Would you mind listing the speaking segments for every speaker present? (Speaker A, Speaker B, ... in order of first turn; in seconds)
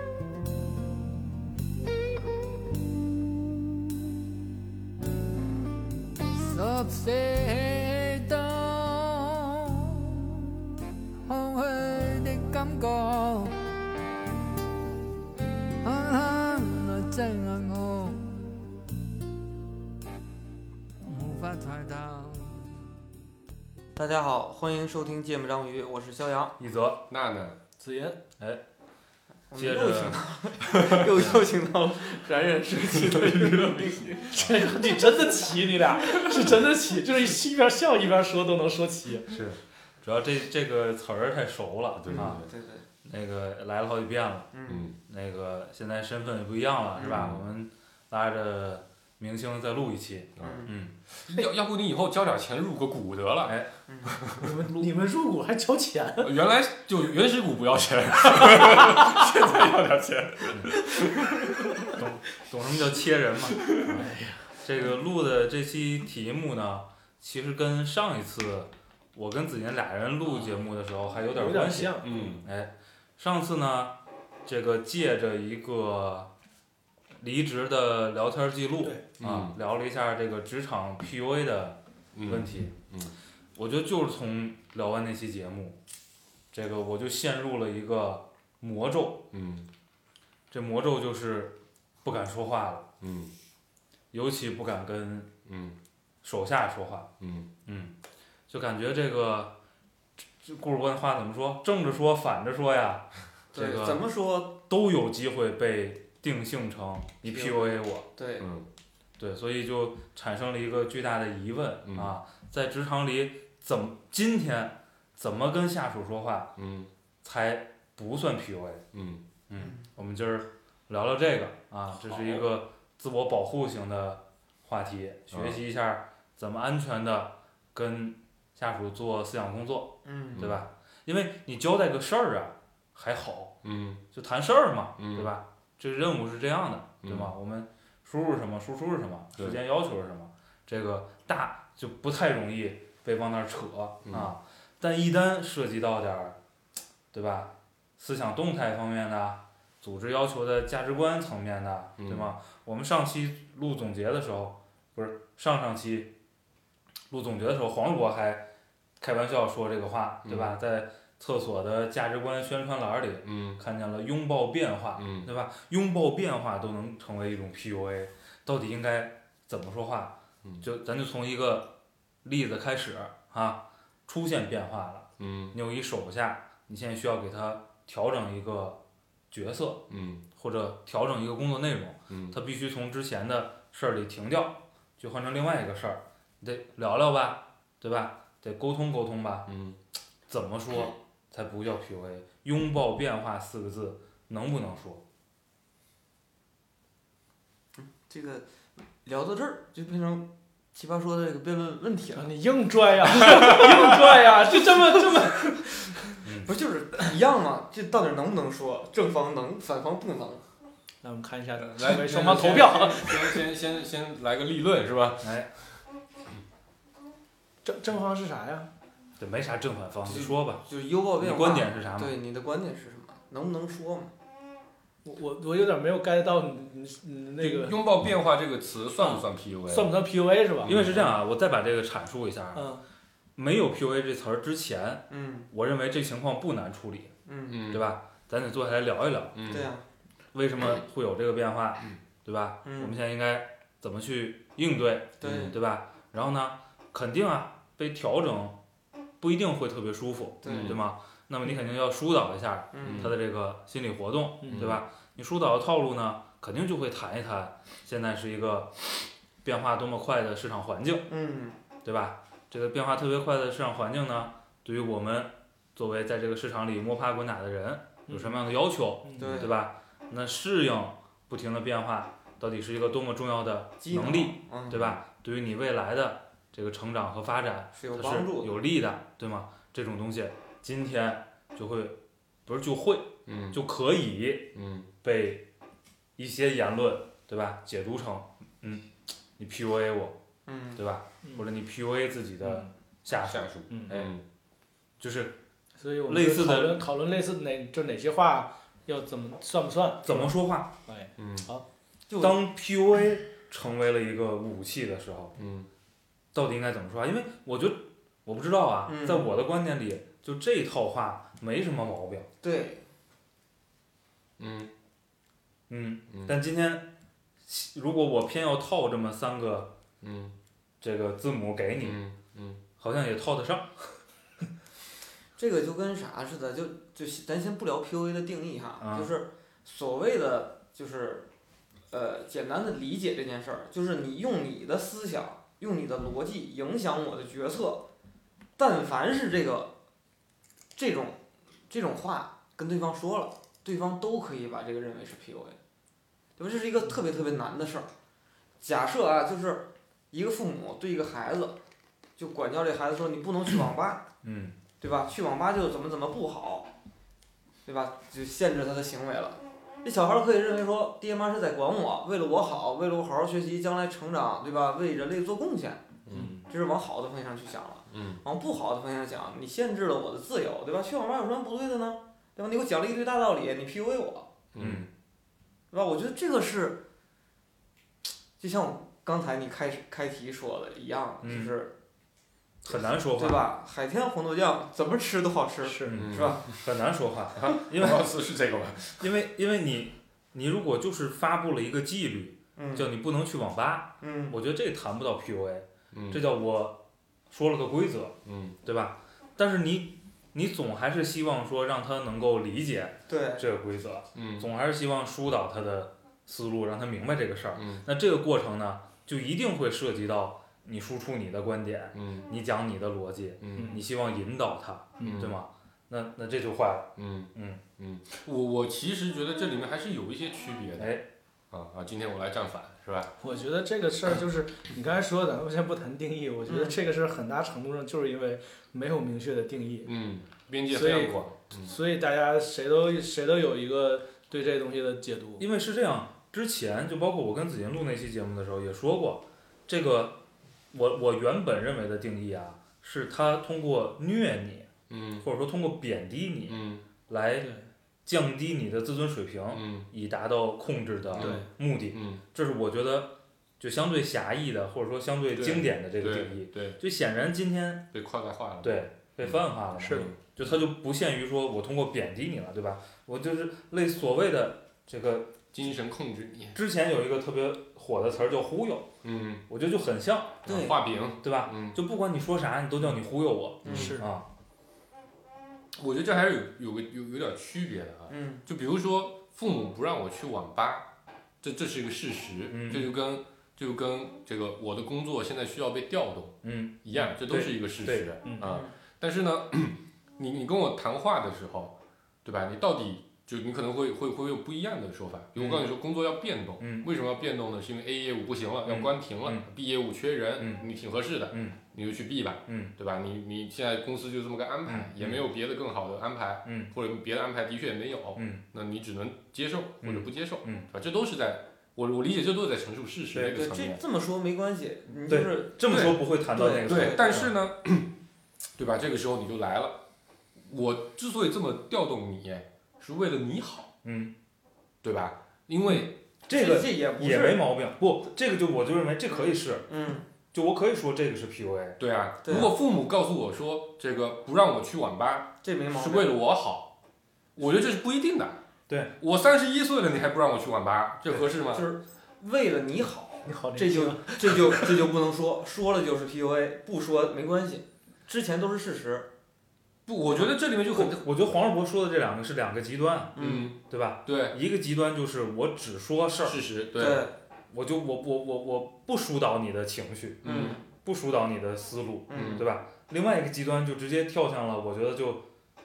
Speaker A: 6.3-10.6, 11.2-13.6, 15.8-18.5, 21.0-22.7
Speaker B: 23.9-26.6, 29.5-34.4, 42.1-42.8, 44.5-44.9, 47.0-47.3, 50.4-50.7, 53.9-54.2, 103.5-104.5, 107.3-108.5, 119.5-119.8, 130.0-130.5, 197.8-198.4, 199.0-202.3, 206.4-210.4, 220.1-224.1, 235.1-235.5, 237.2-237.6, 239.5-239.8, 242.6-242.9, 245.2-245.5, 250.4-250.8, 252.7-253.1, 261.1-261.6, 269.2-269.5, 273.8-274.8, 277.8-278.5, 290.5-290.8, 302.1-302.4, 308.9-309.3, 312.4-312.9, 325.4-331.3, 331.9-337.8, 338.6-339.7, 340.8-345.6, 346.4-347.9, 348.6-351.6, 352.2-354.0, 354.8-356.7, 357.6-365.9, 366.5-374.3, 375.7-376.8, 378.4-381.7, 382.7-386.5, 392.6-392.9, 394.0-394.4, 403.1-403.4, 426.5-426.8, 470.4-470.8, 478.1-478.4, 488.4-488.7, 513.1-515.6, 516.3-517.3, 526.3-527.4, 529.7-530.1, 532.2-532.5, 535.4-536.1, 541.2-549.1, 553.1-553.5, 556.8-557.1, 560.2-560.6, 562.1-562.4
Speaker C: 26.6-27.0, 29.5-30.2, 39.3-42.4, 43.0-50.9, 53.4-53.7, 61.9-64.0, 64.6-73.9, 74.5-76.3, 77.2-82.7, 83.5-85.8, 86.5-89.2, 90.5-92.9, 94.1-95.3, 96.2-97.1, 97.7-97.9, 98.5-99.5, 100.4-104.0, 104.6-108.0, 109.2-116.5, 117.2-118.8, 119.5-133.5, 134.1-146.4, 147.1-156.1, 157.1-158.4, 159.0-171.7, 172.2-178.8, 179.3-189.5, 190.3-195.0, 206.2-206.5, 215.2-215.5, 219.2-220.6, 221.2-222.2, 230.7-232.7, 233.3-237.1, 237.7-239.4, 240.3-248.6, 249.2-261.1, 261.8-284.5, 285.0-285.4, 286.2-290.1, 290.8-294.1, 295.0-295.4, 296.1-296.8, 300.0-300.7, 302.2-305.3, 306.3-312.3, 315.7-316.9, 317.4-319.7, 320.8-322.0, 322.8-323.8, 328.8-329.1, 354.2-354.6, 374.6-374.9, 381.2-381.5, 382.6-383.4, 386.6-388.1, 389.0-417.6, 420.8-421.0, 435.4-440.2, 440.7-444.7, 445.2-447.5, 448.1-457.9, 458.6-465.4, 466.5-468.9, 469.5-470.4, 471.2-474.3, 482.5-482.9, 486.4-488.1, 495.4-495.7, 496.6-496.9, 498.6-499.4, 500.4-500.6, 501.3-501.6, 502.5-502.7, 504.6-505.2, 506.4-506.7, 508.1-508.4, 509.8-510.7, 515.1-517.3, 523.8-524.1, 525.7-529.6, 530.3-531.8, 538.7-538.9, 550.1-556.4, 557.5-565.2
Speaker D: 27.1-27.6, 32.9-34.5, 42.0-42.5, 44.7-44.9, 47.0-47.4, 50.4-54.4, 56.2-61.9, 63.6-64.0, 72.0-72.4, 79.2-79.5, 82.1-83.1, 89.3-89.7, 93.0-93.3, 95.5-95.8, 97.2-97.5, 108.4-108.7, 111.8-112.1, 116.5-116.9, 118.9-119.2, 122.0-122.5, 125.3-125.6, 130.3-130.6, 133.6-134.0, 135.0-135.3, 137.0-137.3, 144.0-144.3, 152.0-152.3, 160.2-160.6, 163.2-163.6, 165.0-165.3, 175.2-175.6, 179.9-180.2, 182.1-182.4, 189.5-189.8, 211.6-215.3, 227.4-229.9, 230.6-231.2, 237.5-237.8, 239.3-239.7, 245.2-245.5, 250.4-250.8, 252.8-253.1, 254.5-254.8, 283.2-283.6, 284.5-284.9, 293.2-294.2, 301.2-301.5, 305.4-305.7, 314.4-314.7, 316.1-316.4, 320.0-320.3, 321.8-322.6, 366.1-366.4, 367.9-368.2, 374.5-374.9, 385.9-386.6, 387.4-389.1, 395.9-396.2, 398.2-398.6, 404.1-404.5, 407.5-407.8, 411.9-412.3, 413.4-413.8, 415.0-415.3, 417.0-420.9, 421.5-423.1, 429.9-431.7, 444.9-445.2, 446.5-446.8, 449.5-449.9, 451.1-452.2, 455.3-456.8, 457.9-460.3, 465.5-466.6, 469.0-469.4, 470.4-471.8, 473.6-473.9, 475.7-480.9, 481.4-513.8, 515.7-517.9, 518.5-519.8, 520.5-523.7, 524.8-525.9, 531.8-536.7, 537.4-538.4, 539.0-541.7, 549.9-551.0, 553.2-554.4, 556.2-557.0, 560.2-560.6, 562.1-562.4
Speaker E: 27.8-28.2, 34.3-39.4, 54.4-56.3, 58.5-59.1, 60.9-61.9, 63.8-64.6, 71.3-72.4, 202.1-206.2, 211.0-213.4, 217.6-218.7, 225.0-227.8, 229.0-230.7, 232.5-232.8, 268.1-268.4, 269.0-269.4, 292.4-292.7, 293.7-294.0, 295.8-300.3, 300.9-301.6, 366.1-366.4, 385.6-386.0, 415.0-415.3, 423.2-429.9, 430.7-435.4, 447.4-447.7, 451.2-451.5, 459.8-460.1, 473.6-474.1, 488.2-488.5, 543.2-544.7